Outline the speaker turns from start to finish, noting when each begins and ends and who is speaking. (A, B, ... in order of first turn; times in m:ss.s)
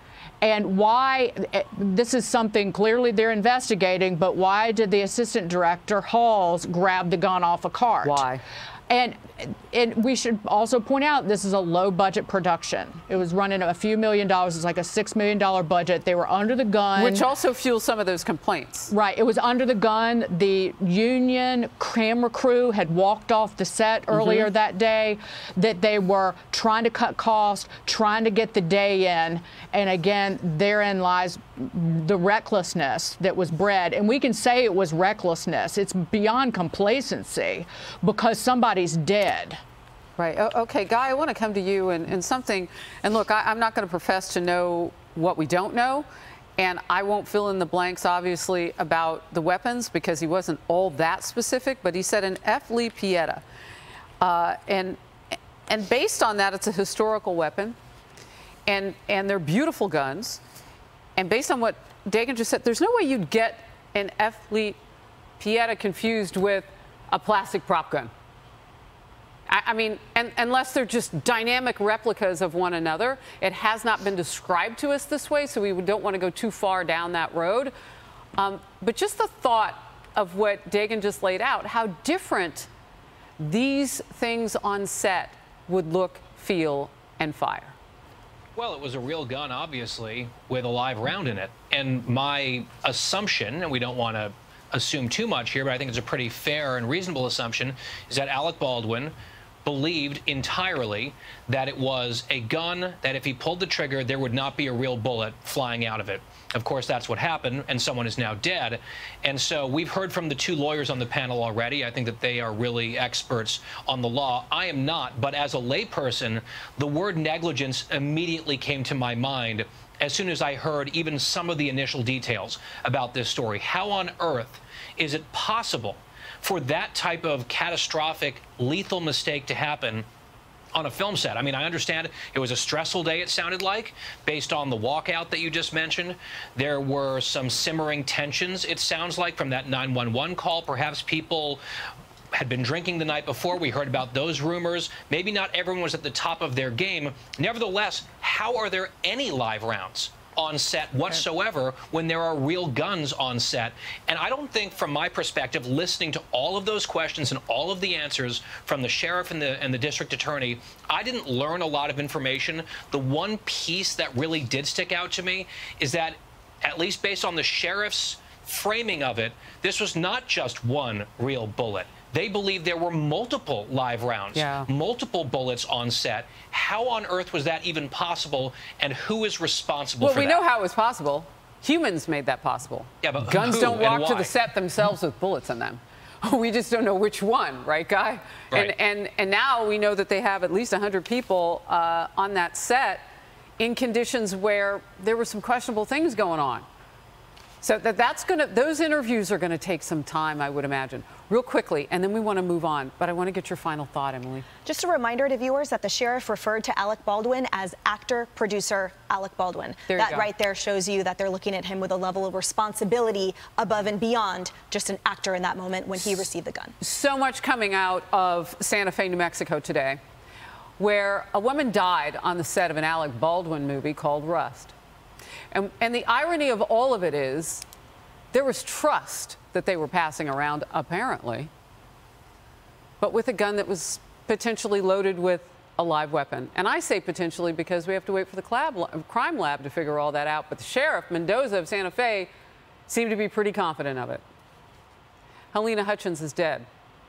0:00.4-0:08.2 A
0:08.0-0:08.4 B
0:08.9-0:17.3 A
0:17.0-0:18.9 B
0:18.9-0:39.6 A
0:24.1-0:24.5 B
0:40.2-0:46.1 B
0:46.6-0:53.4 B
0:54.2-0:55.0 B
0:55.7-0:57.8 B
0:58.7-1:00.4 B
1:01.2-1:04.8 B
1:05.4-1:08.1 B
1:09.5-1:17.7 B
1:18.4-1:22.7 B
1:23.4-1:27.8 B
1:28.6-2:10.1 C
2:10.7-2:21.6 C
2:22.3-3:00.4 C
2:54.3-2:54.7 B
3:00.0-3:13.0 B
3:03.0-3:04.3 C
3:13.6-3:16.7 B
3:17.6-3:24.5 B
3:24.7-3:36.8 D
3:29.9-3:30.3 B
3:36.8-3:40.0 B
3:40.8-3:44.7 B
3:45.5-3:47.6 B
3:48.3-3:51.5 B
3:53.0-4:02.3 B
4:02.9-4:04.2 B
4:05.5-4:06.7 B